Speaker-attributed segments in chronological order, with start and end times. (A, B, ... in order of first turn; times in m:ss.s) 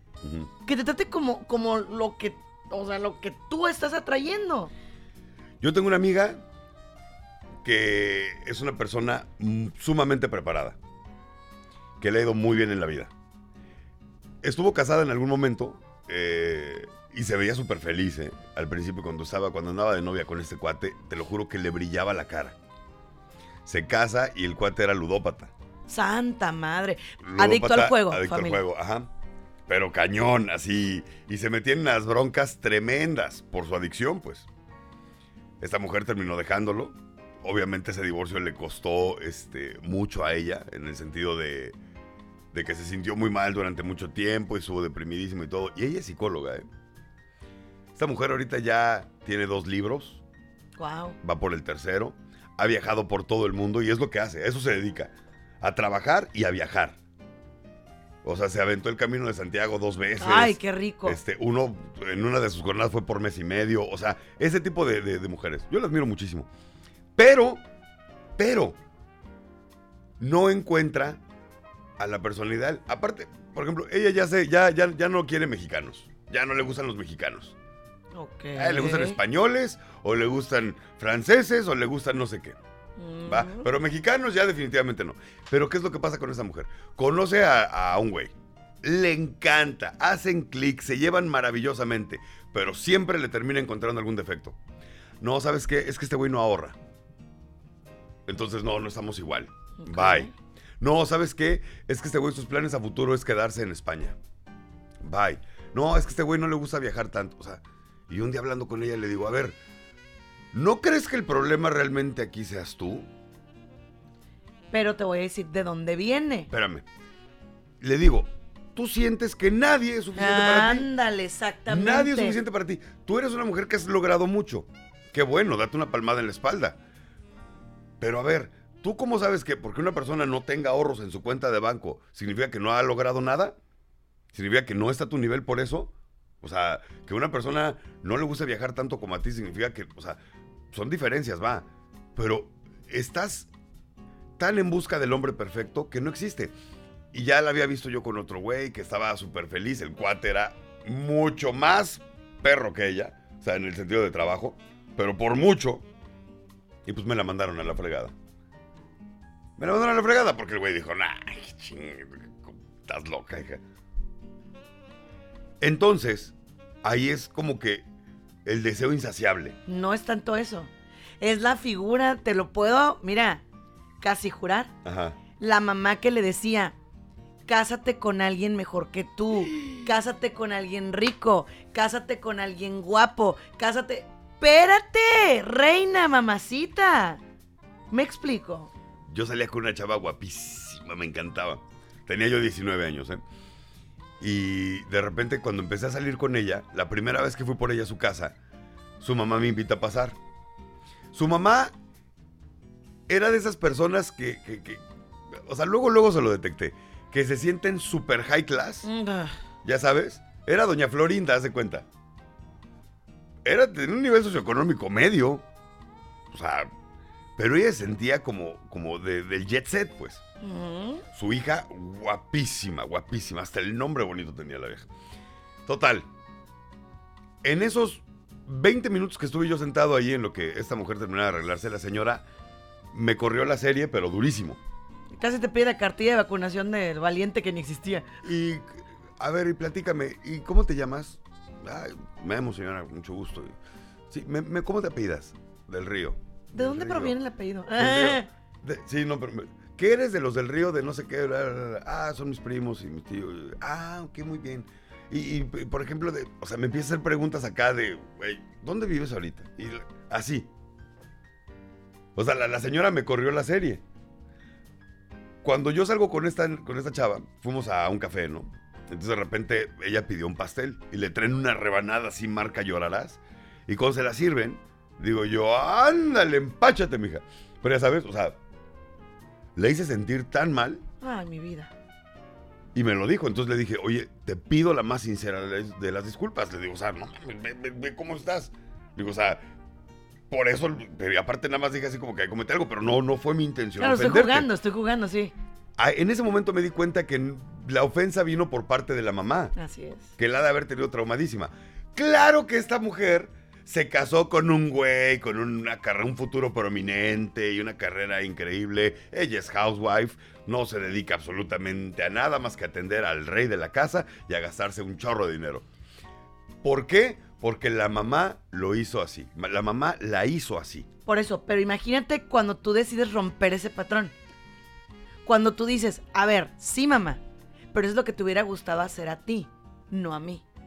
0:00.2-0:00.5 A
0:00.6-0:04.7 B
0:05.6-0:06.4 A
0:07.6-0:10.8 A
0:12.0-0:13.1 A
0:14.4-0:22.6 A
0:23.6-0:25.5 A
0:25.9-0:28.6 B
0:27.2-0:29.1 A
0:29.7-0:34.5 A
0:35.6-0:41.8 A
0:42.5-0:46.6 A
0:47.9-0:50.2 A
0:50.8-0:51.2 B
0:51.2-0:57.0 A
0:58.2-1:06.5 A
1:00.2-1:01.2 B
1:07.2-1:07.6 A
1:08.4-1:08.8 A
1:10.2-1:11.2 A
1:12.0-1:17.5 A
1:18.1-1:19.2 B
1:18.5-1:22.6 A
1:23.0-1:23.7 B
1:23.2-1:34.6 A
1:35.2-1:36.8 A
1:38.2-1:40.3 A
1:39.8-1:40.3 B
1:40.8-1:44.2 A
1:45.0-1:49.6 A
1:50.5-1:53.1 A
1:54.7-1:56.5 B
1:56.5-1:56.8 A
1:57.8-2:00.9 A
2:00.2-2:02.4 B
2:01.7-2:06.8 A
2:08.0-2:13.6 A
2:14.3-2:20.2 A
2:20.7-2:23.5 A
2:24.4-2:26.5 A
2:27.1-2:35.8 A
2:36.8-2:38.1 A
2:39.6-2:43.6 A
2:45.6-2:47.8 A
2:48.4-2:49.6 A
2:49.7-2:50.7 B
2:51.2-2:53.4 B
2:54.0-2:54.7 B
2:54.8-2:55.2 A
2:55.4-2:56.7 B
2:57.5-3:07.2 B
3:07.9-3:08.7 B
3:09.1-3:13.2 A
3:14.2-3:18.4 A
3:19.0-3:20.2 A
3:21.1-3:21.7 A
3:23.1-3:28.9 A
3:28.8-3:29.3 B
3:29.6-3:31.8 A
3:33.4-3:35.4 A
3:36.3-3:36.7 A
3:37.4-3:40.2 A
3:40.4-3:41.0 B
3:41.1-3:44.9 A
3:45.6-3:46.1 A
3:47.4-3:52.2 A
3:52.9-3:54.6 A
3:55.2-3:58.1 B
3:58.2-4:03.5 A
4:04.1-4:07.1 A
4:06.5-4:08.3 B
4:07.8-4:20.5 A
4:22.1-4:23.8 A
4:25.4-4:38.4 A
4:39.6-4:40.8 A
4:41.0-4:41.7 B
4:42.7-4:49.4 A
4:50.3-4:54.5 A
4:53.8-4:55.3 B
4:55.8-4:59.5 A
4:59.5-5:00.1 B
5:00.2-5:15.6 A
5:16.6-5:20.9 A
5:21.0-5:24.1 B
5:25.2-5:27.2 B
5:27.7-5:30.4 B